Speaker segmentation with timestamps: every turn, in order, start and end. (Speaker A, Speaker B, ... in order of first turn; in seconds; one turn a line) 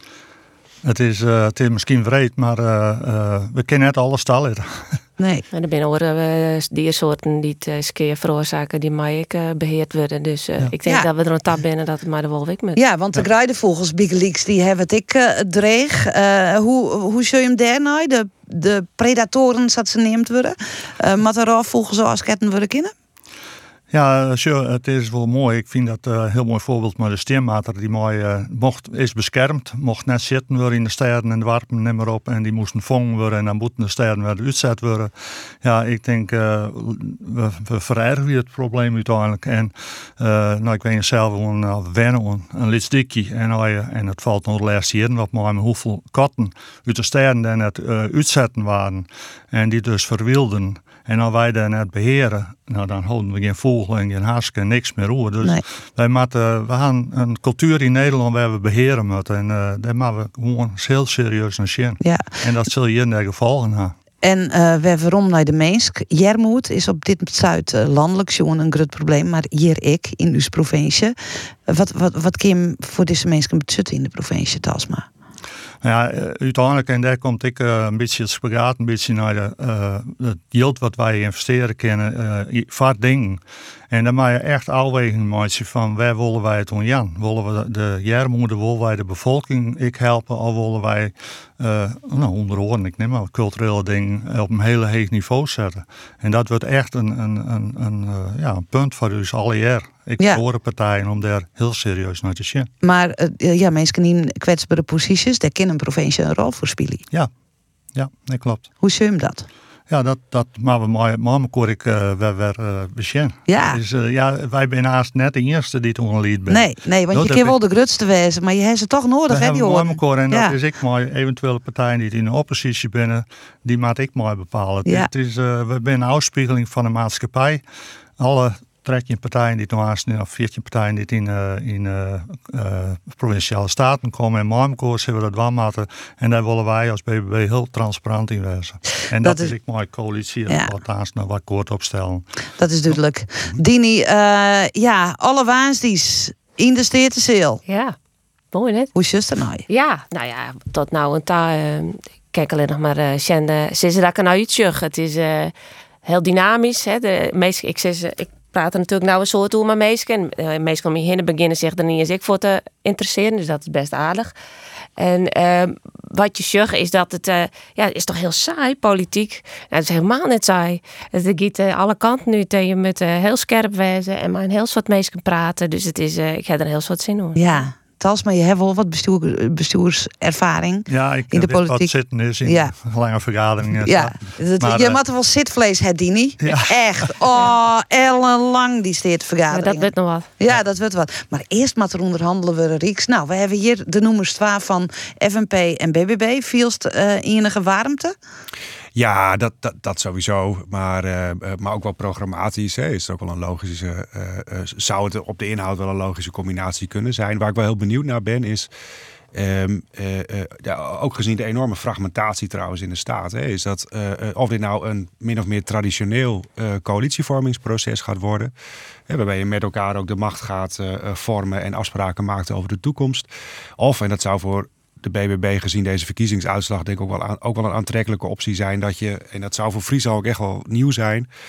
Speaker A: 0.8-5.0
Speaker B: 5.2-5.4
Speaker C: 5.5-12.8
Speaker B: 12.8-22.9
Speaker A: 23.9-63.9
Speaker B: 62.0-62.3
Speaker B: 64.2-71.1
Speaker B: 71.7-75.0
Speaker A: 75.8-102.7
Speaker B: 102.8-107.0
Speaker A: 107.9-108.7
Speaker B: 108.8-109.5
Speaker A: 109.9-117.6
Speaker B: 113.5-113.8
Speaker B: 116.5-120.5
Speaker A: 119.3-127.6
Speaker A: 128.2-142.2
Speaker B: 139.2-139.5
Speaker B: 142.6-147.6
Speaker C: 147.7-147.9
Speaker C: 148.5-148.9
Speaker B: 148.9-149.6
Speaker C: 149.7-155.5
Speaker C: 156.0-164.3
Speaker C: 165.0-177.5
Speaker B: 177.3-182.7
Speaker A: 180.9-185.0
Speaker B: 183.8-198.1
Speaker A: 186.4-186.9
Speaker C: 189.5-190.3
Speaker D: 198.9-208.7
Speaker D: 209.3-218.5
Speaker D: 219.1-231.3